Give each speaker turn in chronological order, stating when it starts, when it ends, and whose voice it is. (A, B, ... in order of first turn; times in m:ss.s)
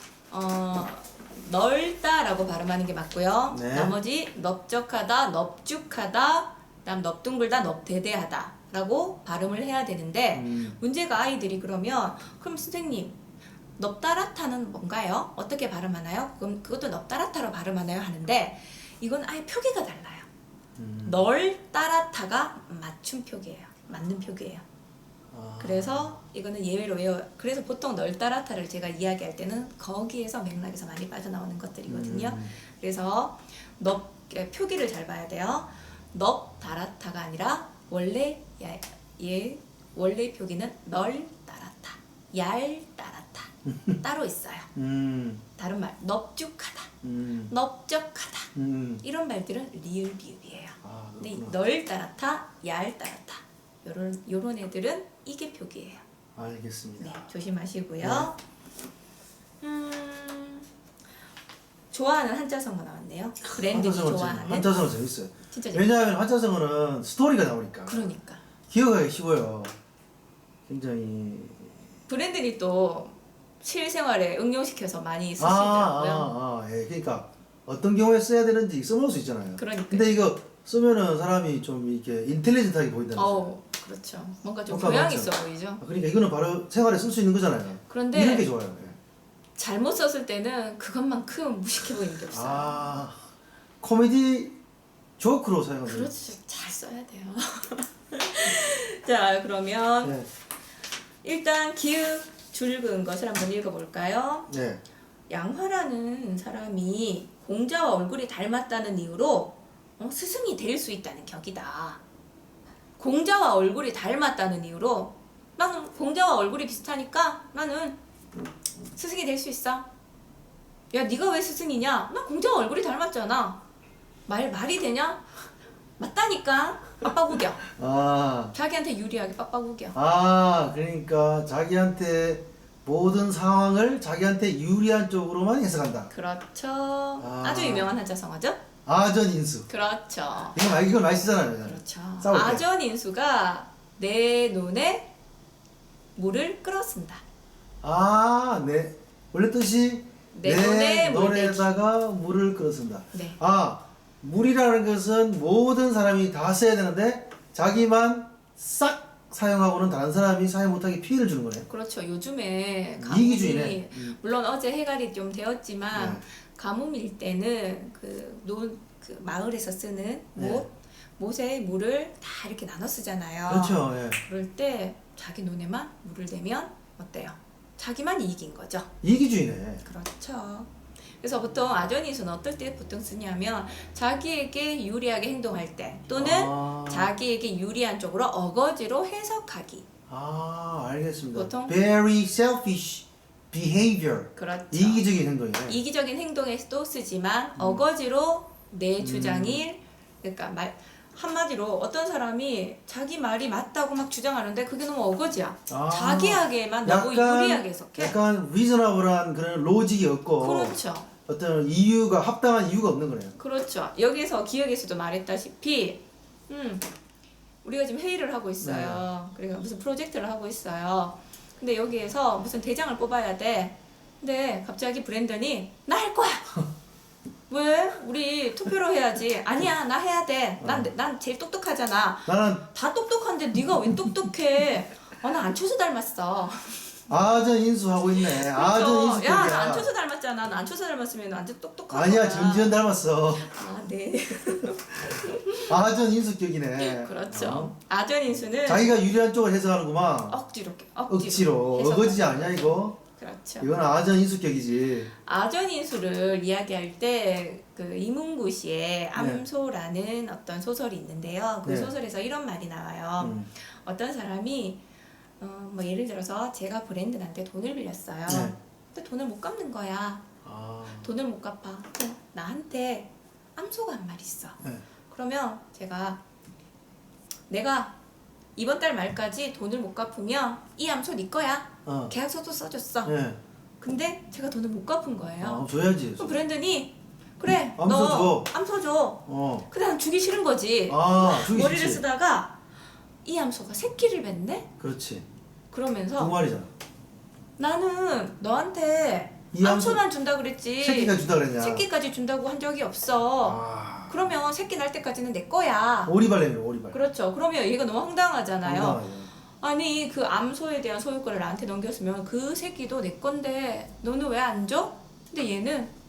0:00.3-0:13.1 A
0:03.5-0:03.9 B
0:10.3-0:10.8 B
0:13.8-0:20.3 A
0:20.8-0:21.2 B
0:21.0-0:24.6 A
0:25.3-0:26.1 B
0:25.6-0:44.7 A
0:31.9-0:32.6 B
0:43.6-0:44.0 B
0:44.7-0:45.4 B
0:45.6-0:46.9 A
0:47.0-0:47.5 B
0:47.5-0:48.5 A
0:48.5-0:49.0 B
0:49.0-0:56.0 A
0:50.8-0:51.6 B
0:56.4-0:57.2 B
0:57.0-0:58.4 A
0:58.0-0:58.3 B
0:59.6-1:00.7 A
1:01.9-1:04.8 A
1:03.6-1:08.1 B
1:05.5-1:05.8 A
1:07.9-1:08.4 A
1:08.7-1:09.8 B
1:10.7-1:11.8 B
1:12.1-1:16.3 A
1:15.4-1:23.5 B
1:19.6-1:20.1 A
1:23.1-1:25.8 A
1:24.7-1:29.0 B
1:27.9-1:28.5 A
1:29.6-1:32.8 A
1:32.3-1:33.2 B
1:33.8-1:34.6 B
1:35.2-1:36.1 B
1:35.8-1:40.2 A
1:40.0-1:40.3 B
1:41.2-1:44.5 A
1:44.5-1:44.8 B
1:45.3-1:52.0 A
1:53.0-1:58.0 A
1:58.9-1:59.9 A
2:00.9-2:03.6 A
2:04.3-2:05.3 A
2:06.0-2:07.6 A
2:07.7-2:08.5 B
2:08.5-2:10.0 A
2:09.9-2:16.1 B
2:16.1-2:18.6 A
2:17.2-2:17.9 B
2:18.8-2:19.7 B
2:19.7-2:20.7 A
2:20.5-2:22.6 B
2:21.6-2:25.1 A
2:26.2-2:27.2 A
2:27.8-2:41.7 B
2:30.3-2:31.9 A
2:33.1-2:33.4 A
2:41.7-2:58.9 A
2:43.0-2:44.2 B
2:45.9-2:46.2 B
2:50.4-2:50.6 B
2:53.5-2:54.2 B
2:59.0-2:59.8 B
2:59.8-3:00.7 A
3:01.2-3:09.8 A
3:06.1-3:07.1 B
3:10.1-3:15.8 B
3:11.3-3:11.8 A
3:14.4-3:15.1 A
3:15.6-3:28.2 A
3:17.6-3:17.8 B
3:19.0-3:19.6 B
3:25.7-3:30.8 B
3:30.4-3:31.1 A
3:31.3-3:33.4 B
3:33.4-3:36.8 A
3:37.6-3:46.6 A
3:38.6-3:39.0 B
3:47.5-3:57.0 A
3:50.6-3:50.9 B
3:52.3-3:52.6 B
3:57.1-3:59.9 B
3:58.2-4:02.8 A
4:01.9-4:03.5 B
4:03.4-4:05.8 A
4:05.6-4:07.7 B
4:06.8-4:08.9 A
4:08.6-4:10.4 B
4:10.3-4:13.7 A
4:11.1-4:13.0 B
4:13.6-4:15.1 B
4:15.2-4:24.8 A
4:19.1-4:19.4 B
4:21.6-4:21.9 B
4:23.2-4:23.5 B
4:25.4-4:30.2 A
4:28.3-4:28.6 B
4:30.4-4:31.1 B
4:30.9-4:36.2 A
4:37.5-4:37.9 A
4:38.6-4:43.1 A
4:41.8-4:42.1 B
4:43.0-4:43.4 B
4:43.8-4:45.6 A
4:45.4-4:46.4 B
4:46.2-4:52.6 A
4:47.8-4:48.5 B
4:49.3-4:49.7 B
4:50.9-4:52.0 B
4:53.2-4:54.7 A
4:54.8-4:55.2 B
4:55.7-4:56.3 A
4:56.2-4:56.7 B
4:57.6-5:06.1 A
4:59.5-5:00.0 B
5:00.8-5:01.8 B
5:03.4-5:04.2 B
5:06.0-5:07.0 B
5:06.9-5:09.0 A
5:08.6-5:09.3 B
5:09.6-5:15.9 A